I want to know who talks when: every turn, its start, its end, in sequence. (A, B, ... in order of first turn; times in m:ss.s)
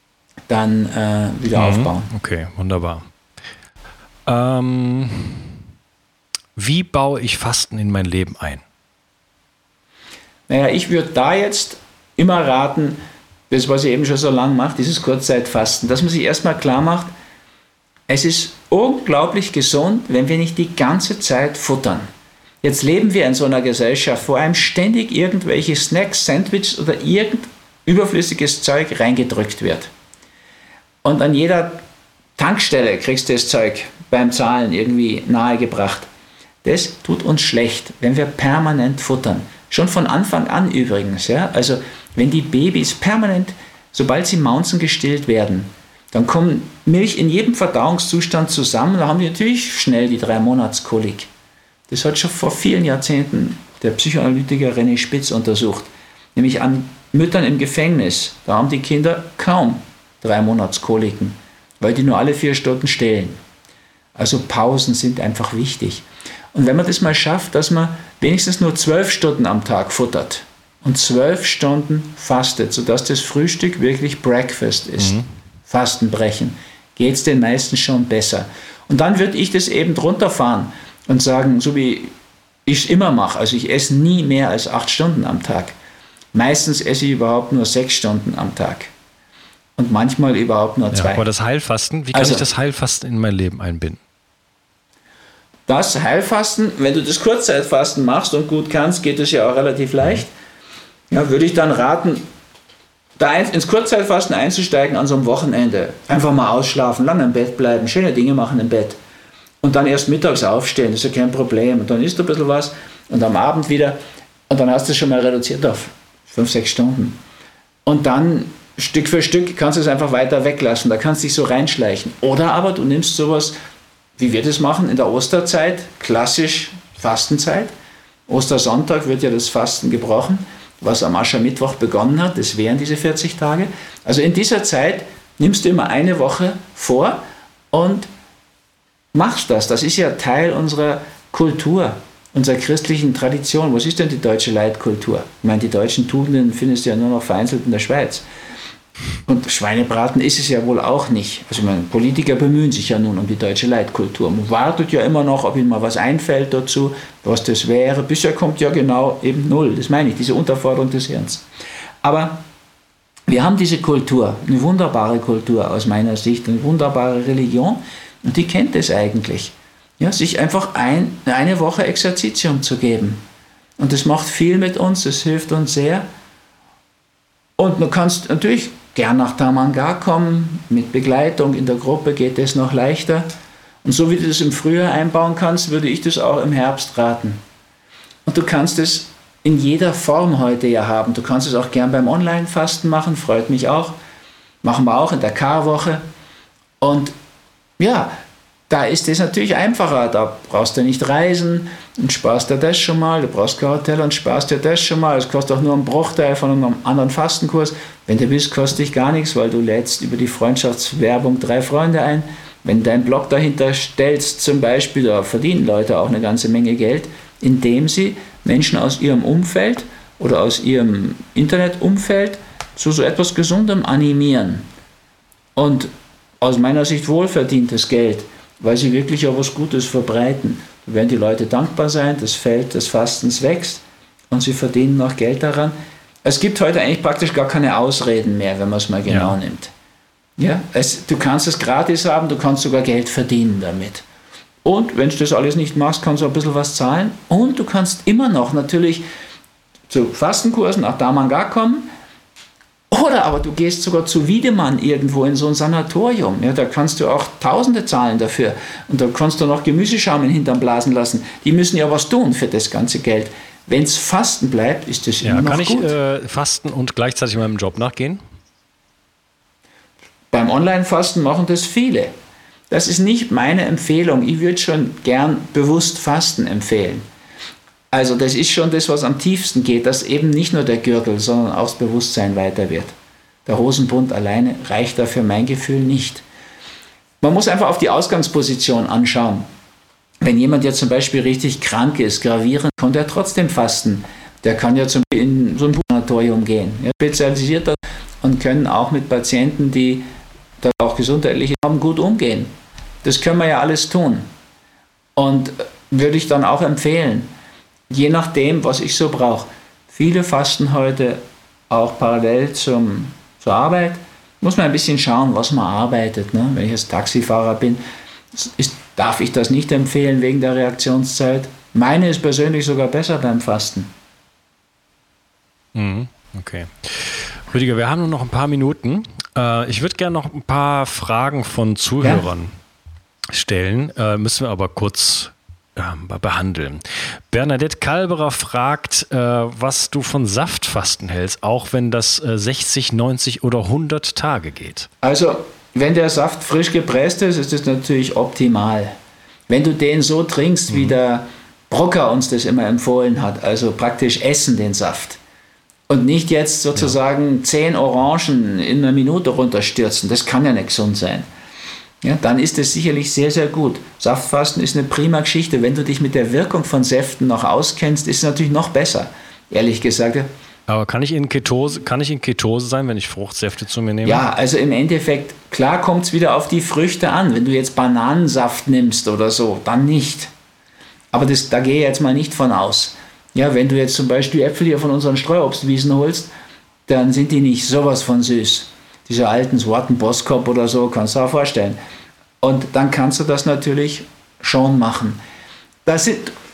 0:00.5-0:02.1 A
0:01.5-0:03.1 B
0:04.2-0:05.5 B
0:06.6-0:08.6 B
0:10.5-0:13.0 A
0:13.5-0:17.1 A
0:18.1-0:22.1 A
0:22.6-0:29.9 A
0:31.0-0:31.8 A
0:32.4-0:36.1 A
0:36.6-0:51.3 A
0:51.9-1:03.4 A
1:04.2-1:22.1 A
1:15.0-1:15.3 B
1:22.6-1:25.7 A
1:26.3-1:28.9 A
1:29.8-1:31.2 A
1:30.9-1:34.0 B
1:32.1-1:32.4 A
1:35.7-1:40.3 A
1:41.1-1:42.2 A
1:43.2-1:49.0 A
1:49.6-1:57.2 A
1:57.9-2:03.5 A
2:04.2-2:07.7 A
2:08.3-2:17.2 A
2:17.7-2:18.1 A
2:19.1-2:28.2 A
2:29.3-2:41.4 A
2:42.0-2:42.4 A
2:43.3-2:53.2 A
2:53.8-2:56.0 A
2:57.6-3:03.3 A
3:03.8-3:07.4 A
3:08.2-3:14.0 A
3:14.6-3:16.0 A
3:16.8-3:17.1 A
3:17.8-3:18.1 A
3:18.7-3:44.6 A
3:45.6-3:59.7 A
3:59.1-3:59.4 B
4:00.4-4:04.0 A
4:04.6-4:09.0 A
4:09.9-4:11.9 A
4:12.9-4:25.9 A
4:25.2-4:28.2 B
4:30.3-4:32.1 A
4:32.7-4:37.0 A
4:37.9-4:42.9 A
4:43.4-4:46.2 A
4:47.2-4:49.4 A
4:50.2-5:00.0 A
5:00.6-5:02.5 A
5:03.0-5:04.3 A
5:05.2-5:07.3 A
5:07.9-5:17.8 A
5:18.3-5:23.9 A
5:25.7-5:32.5 B
5:33.3-5:44.9 B
5:45.0-5:48.9 A
5:49.5-5:55.2 A
5:55.9-6:01.2 A
6:02.0-6:10.3 A
6:10.7-6:14.2 B
6:14.0-6:20.3 A
6:21.1-6:26.3 A
6:26.9-6:31.8 A
6:32.4-6:35.2 A
6:35.9-6:36.3 A